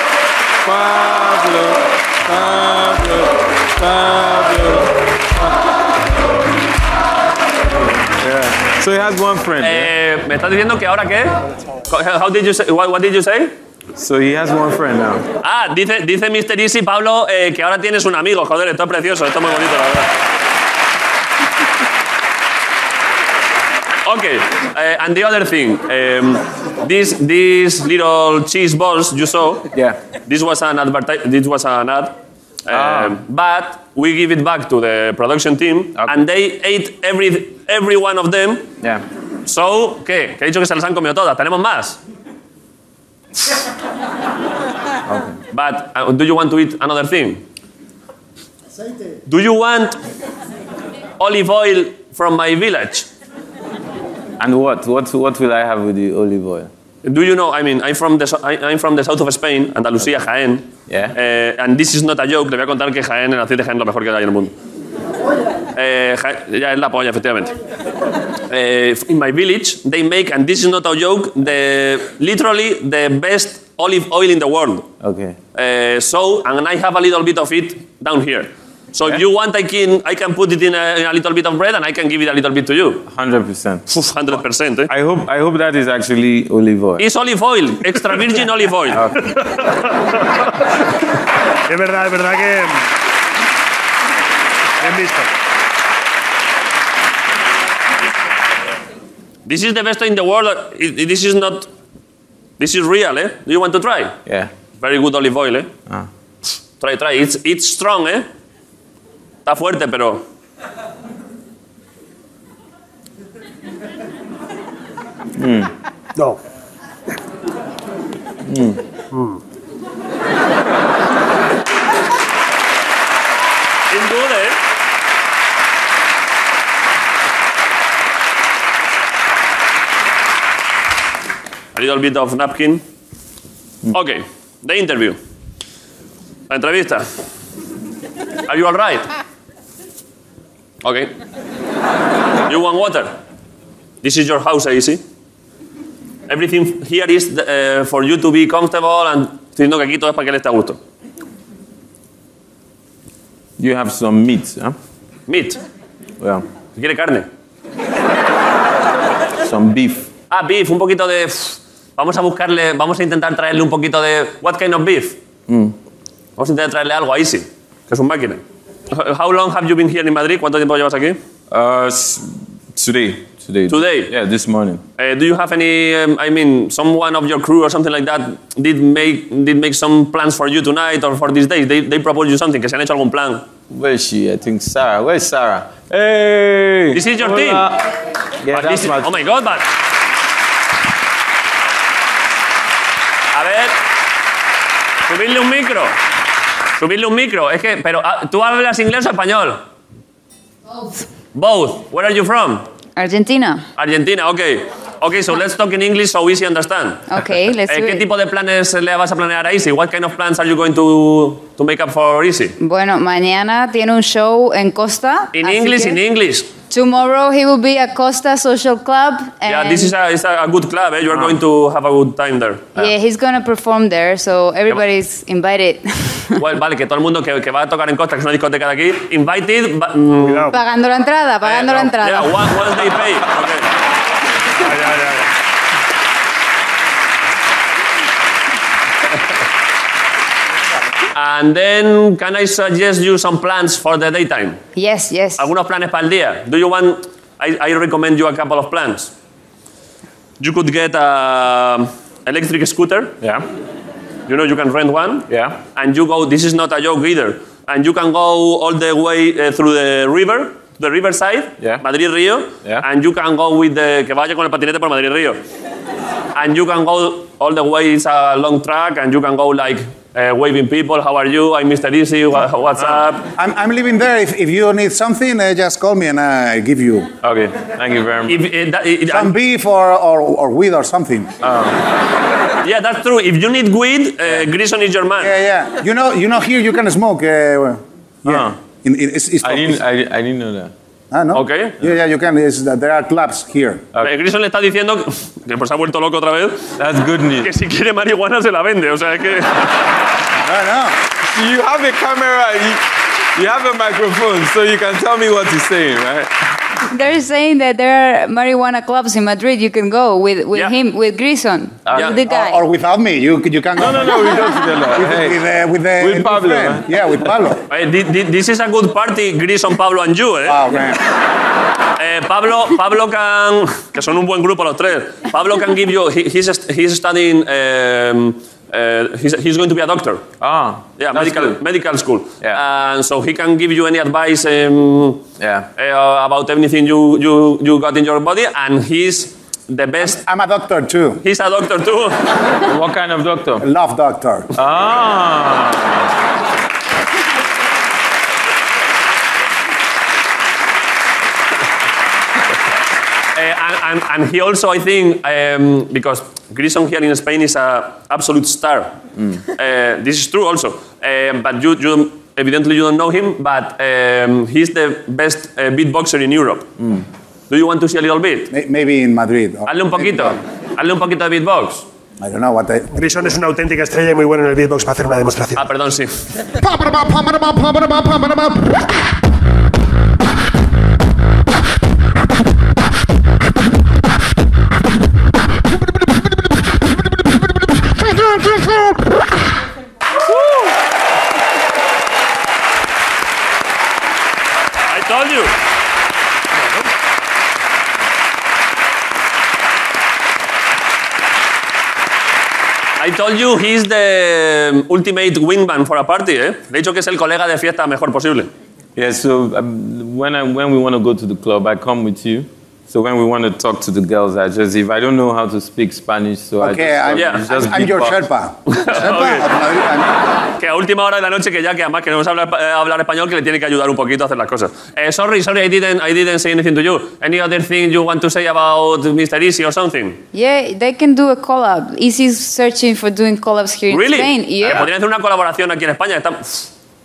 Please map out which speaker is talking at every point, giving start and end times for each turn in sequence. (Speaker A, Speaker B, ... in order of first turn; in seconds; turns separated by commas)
Speaker A: 0.6-5.5, Speaker A: 8.2-9.9, Speaker B: 9.6-11.4, Speaker B: 11.9-13.5, Speaker A: 14.0-15.3, Speaker B: 15.4-20.1, Speaker B: 24.1-29.7, Speaker B: 30.3-32.1, Speaker B: 32.7-38.7, Speaker A: 32.7-33.2, Speaker B: 39.5-42.0, Speaker A: 45.1-45.4, Speaker B: 45.5-47.4, Speaker B: 49.3-50.0, Speaker B: 51.2-53.1, Speaker A: 54.4-56.7, Speaker B: 57.0-64.5, Speaker A: 60.9-61.2, Speaker B: 65.8-67.5, Speaker B: 68.5-74.9, Speaker A: 75.0-75.4, Speaker B: 75.5-83.1, Speaker A: 83.1-83.9, Speaker B: 83.9-84.9, Speaker A: 84.9-87.0, Speaker B: 87.0-89.1, Speaker A: 88.9-89.3, Speaker C: 91.7-92.8, Speaker C: 94.8-95.3, Speaker B: 99.5-101.7, Speaker B: 102.6-104.2, Speaker B: 104.8-105.7, Speaker B: 106.8-108.3, Speaker B: 109.5-110.2, Speaker A: 115.4-115.7, Speaker A: 118.5-118.8, Speaker C: 119.1-119.4, Speaker B: 123.9-124.6, Speaker B: 131.8-132.8, Speaker B: 133.9-135.2, Speaker B: 136.5-137.1, Speaker B: 138.5-139.1, Speaker B: 140.8-141.1, Speaker B: 142.5-143.2, Speaker B: 144.0-145.0, Speaker B: 146.3-150.8, Speaker A: 153.6-154.8, Speaker B: 155.3-155.6, Speaker A: 156.2-156.4, Speaker B: 156.8-157.3, Speaker A: 159.4-160.1, Speaker B: 160.3-165.2, Speaker A: 165.5-165.8, Speaker B: 166.4-171.2, Speaker A: 171.5-174.8, Speaker B: 173.7-174.1, Speaker B: 175.0-183.4, Speaker A: 183.7-187.9, Speaker B: 186.9-187.7, Speaker A: 188.4-189.2, Speaker B: 188.5-189.7, Speaker B: 193.3-193.8, Speaker B: 195.1-196.0, Speaker B: 196.8-199.6, Speaker B: 201.3-202.7, Speaker D: 203.0-203.7, Speaker B: 203.8-207.1, Speaker D: 207.1-208.1, Speaker B: 207.7-212.6, Speaker D: 212.6-216.0, Speaker B: 215.3-216.5, Speaker D: 216.7-219.9, Speaker B: 219.5-222.9, Speaker D: 222.8-226.4, Speaker B: 226.4-230.5, Speaker C: 230.2-230.6, Speaker D: 230.5-232.5, Speaker B: 231.4-233.7, Speaker C: 234.6-235.3, Speaker B: 241.1-244.6, Speaker D: 244.8-245.5, Speaker B: 245.4-249.1, Speaker B: 250.4-253.2, Speaker B: 254.3-265.4, Speaker A: 255.3-255.6, Speaker B: 266.4-273.3, Speaker E: 273.4-277.1, Speaker A: 277.2-278.4, Speaker B: 278.3-279.3, Speaker E: 279.1-281.3, Speaker A: 281.4-281.8, Speaker B: 282.6-285.3, Speaker E: 285.2-289.8, Speaker A: 288.2-288.6, Speaker A: 289.4-290.7, Speaker E: 291.1-293.9, Speaker B: 291.3-291.8, Speaker B: 294.0-296.7, Speaker A: 296.8-297.5, Speaker B: 297.4-299.8, Speaker E: 300.4-301.0, Speaker A: 301.2-302.8, Speaker A: 303.4-306.3, Speaker D: 306.9-312.6, Speaker A: 311.9-312.1, Speaker B: 311.9-312.2, Speaker E: 312.2-317.6, Speaker A: 313.8-315.4, Speaker A: 316.0-316.9, Speaker B: 317.7-320.6, Speaker E: 320.5-321.0, Speaker B: 322.0-330.2, Speaker A: 330.4-331.6, Speaker B: 331.0-335.2, Speaker A: 335.4-335.7, Speaker B: 335.8-340.2, Speaker E: 340.1-341.2, Speaker B: 341.2-342.2, Speaker A: 342.6-343.7, Speaker E: 343.6-344.5, Speaker A: 344.5-346.1, Speaker B: 353.4-359.0, Speaker B: 359.5-366.7, Speaker A: 366.8-367.1, Speaker B: 367.5-368.5, Speaker E: 368.5-370.4, Speaker B: 369.7-371.9, Speaker E: 372.2-372.9, Speaker C: 372.9-375.7, Speaker B: 375.6-376.2, Speaker E: 376.6-378.8, Speaker B: 394.9-395.6, Speaker B: 403.0-408.5, Speaker A: 409.0-418.2, Speaker E: 416.6-420.1, Speaker B: 417.1-417.4, Speaker B: 418.7-419.5, Speaker B: 420.6-430.2, Speaker D: 430.3-434.9, Speaker B: 433.9-436.7